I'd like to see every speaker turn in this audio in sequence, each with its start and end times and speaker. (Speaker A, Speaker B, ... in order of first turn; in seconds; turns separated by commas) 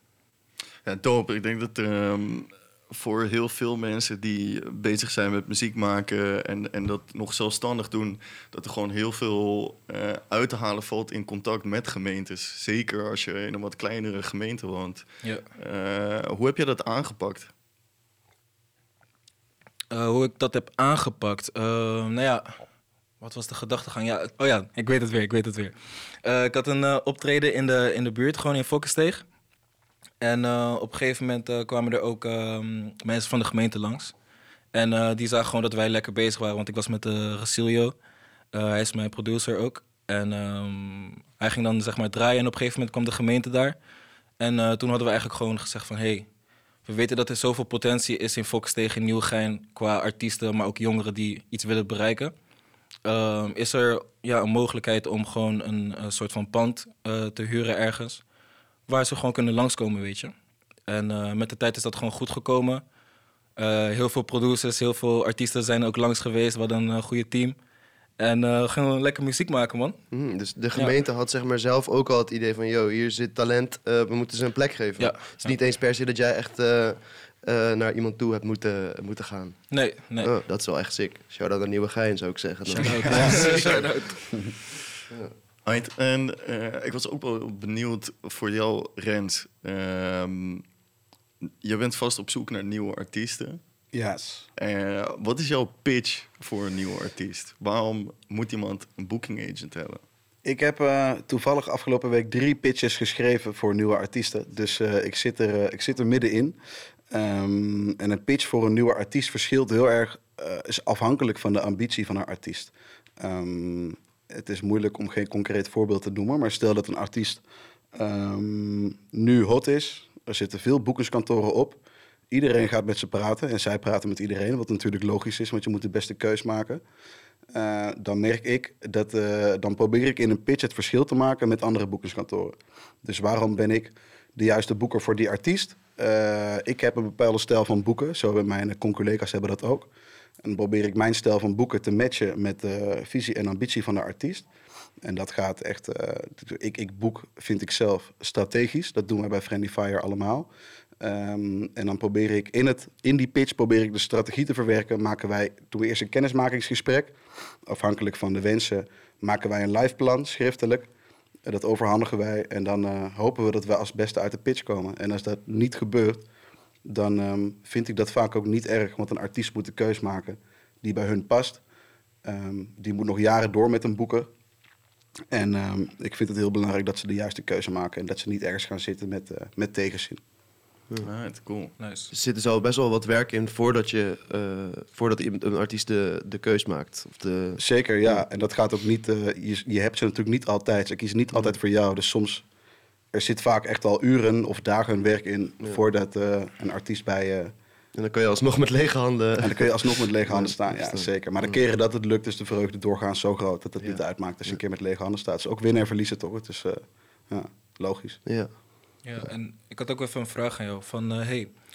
Speaker A: 0.8-15.0, Speaker A: 15.5-17.5, Speaker B: 19.9-22.6, Speaker B: 23.2-29.2, Speaker B: 30.2-34.1, Speaker B: 34.7-37.9, Speaker B: 38.5-43.8, Speaker B: 44.4-46.3, Speaker B: 46.8-52.3, Speaker B: 53.0-58.2, Speaker B: 58.9-60.3, Speaker B: 60.9-62.8, Speaker B: 63.6-67.5, Speaker B: 68.2-70.0, Speaker C: 70.1-83.7, Speaker B: 75.0-75.5, Speaker B: 79.7-80.3, Speaker A: 82.7-83.8, Speaker B: 82.7-84.2, Speaker D: 83.1-83.5, Speaker A: 85.6-90.6, Speaker A: 91.6-93.6, Speaker D: 93.9-94.5, Speaker A: 94.6-100.0, Speaker D: 100.4-106.6, Speaker D: 107.1-117.4, Speaker D: 117.9-126.8, Speaker D: 127.5-139.9, Speaker D: 140.4-144.4, Speaker D: 145.0-150.5, Speaker D: 151.0-160.9, Speaker D: 161.4-166.2, Speaker D: 166.8-171.6, Speaker D: 172.2-174.3, Speaker D: 175.3-180.2, Speaker A: 181.0-181.7, Speaker B: 181.8-182.1, Speaker C: 182.1-188.2, Speaker D: 187.6-192.4, Speaker D: 193.1-197.5, Speaker C: 197.9-201.6, Speaker D: 199.4-208.2, Speaker C: 203.8-204.6, Speaker B: 209.0-211.5